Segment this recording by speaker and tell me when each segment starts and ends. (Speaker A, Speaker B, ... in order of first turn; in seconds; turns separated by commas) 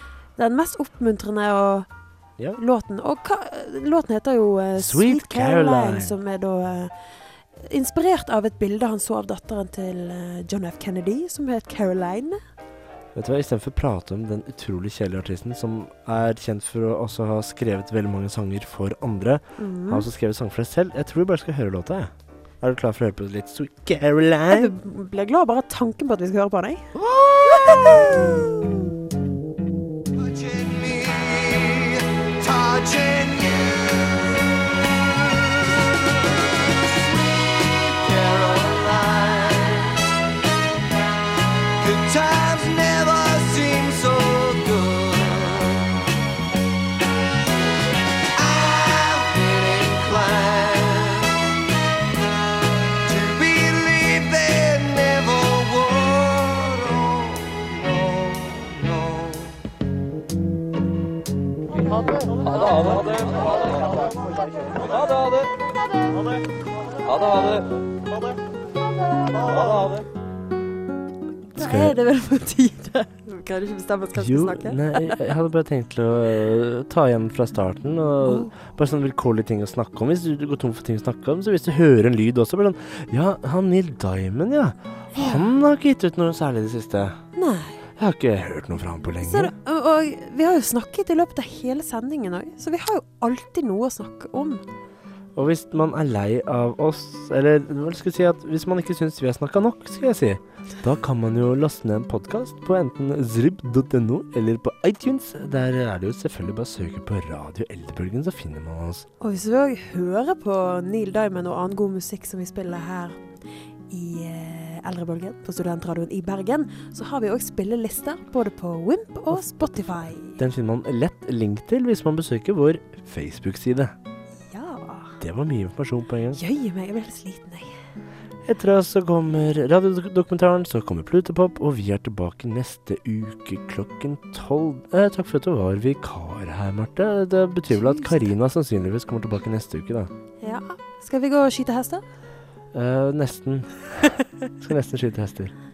Speaker A: 0.4-1.9, Speaker A: 2.6-7.0, Speaker B: 4.8-6.2, Speaker A: 7.6-12.4, Speaker B: 13.2-24.8, Speaker A: 19.6-20.1, Speaker A: 24.5-28.9, Speaker B: 27.2-28.1, Speaker C: 30.2-34.4, Speaker C: 35.2-35.7, Speaker C: 36.8-40.2, Speaker C: 41.8-46.1, Speaker C: 48.4-51.7, Speaker C: 53.0-59.6, Speaker A: 71.5-75.2, Speaker B: 71.6-72.0, Speaker B: 74.1-87.2, Speaker A: 78.2-78.5, Speaker A: 85.1-85.5, Speaker A: 87.4-87.8, Speaker B: 88.0-89.5, Speaker A: 89.2-94.6, Speaker B: 95.3-109.1, Speaker A: 109.2-113.2, Speaker A: 113.9-120.4, Speaker B: 120.4-123.9, Speaker A: 124.5-125.2, Speaker B: 125.2-126.4, Speaker A: 126.3-127.7, Speaker B: 128.5-140.1, Speaker A: 137.9-138.2, Speaker A: 140.4-142.0, Speaker B: 142.7-145.5